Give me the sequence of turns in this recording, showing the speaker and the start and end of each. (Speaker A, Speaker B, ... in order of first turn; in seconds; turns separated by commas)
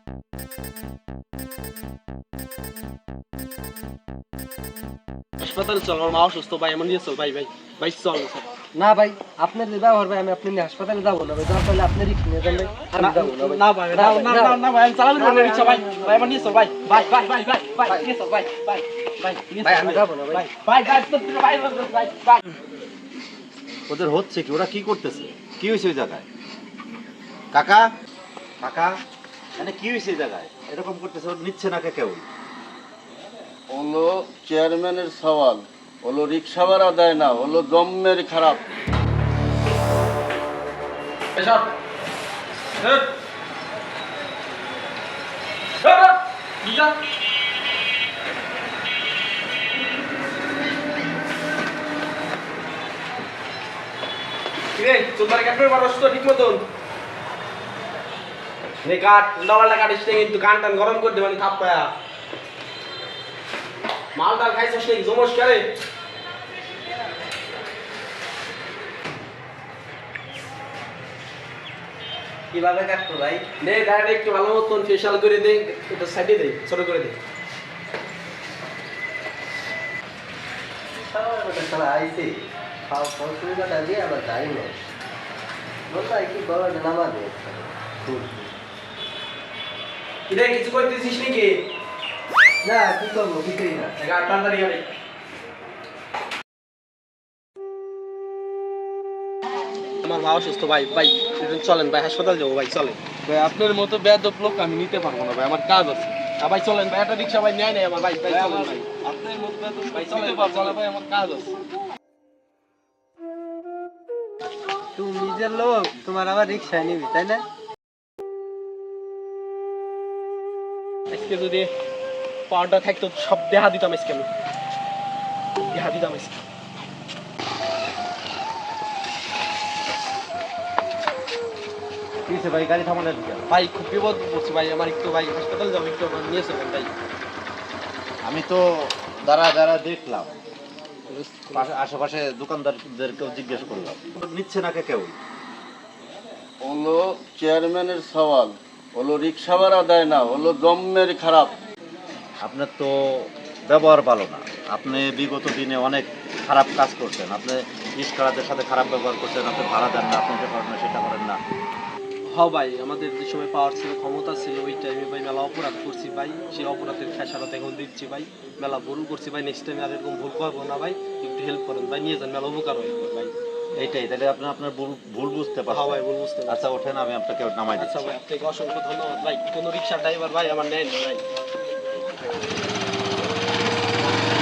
Speaker A: 5.4-8.5, Speaker B: 8.8-14.6, Speaker A: 12.9-22.4, Speaker B: 15.2-16.4, Speaker B: 19.6-20.5, Speaker C: 23.9-26.2, Speaker C: 27.5-27.9, Speaker C: 28.6-29.0, Speaker C: 29.6-32.2, Speaker D: 33.7-38.6, Speaker A: 41.3-41.7, Speaker A: 42.8-43.1, Speaker A: 45.8-47.0, Speaker A: 54.8-56.6, Speaker A: 58.8-61.9, Speaker A: 64.1-65.7, Speaker B: 72.5-73.5, Speaker A: 73.6-77.2, Speaker B: 81.1-82.3, Speaker B: 82.9-84.7, Speaker B: 85.9-88.5, Speaker A: 90.3-91.6, Speaker B: 92.6-93.9, Speaker A: 94.0-94.8, Speaker A: 100.0-103.0, Speaker E: 103.2-106.1, Speaker A: 106.0-108.9, Speaker E: 108.3-111.6, Speaker A: 109.9-110.8, Speaker B: 115.0-117.4, Speaker A: 121.1-121.7, Speaker A: 122.5-124.3, Speaker A: 125.7-126.3, Speaker C: 132.2-133.5, Speaker A: 133.5-136.9, Speaker C: 138.2-140.3, Speaker C: 141.5-145.2, Speaker D: 146.6-151.6, Speaker C: 152.4-161.4, Speaker A: 162.3-173.3, Speaker C: 173.8-178.1, Speaker A: 175.7-176.7, Speaker A: 177.7-181.2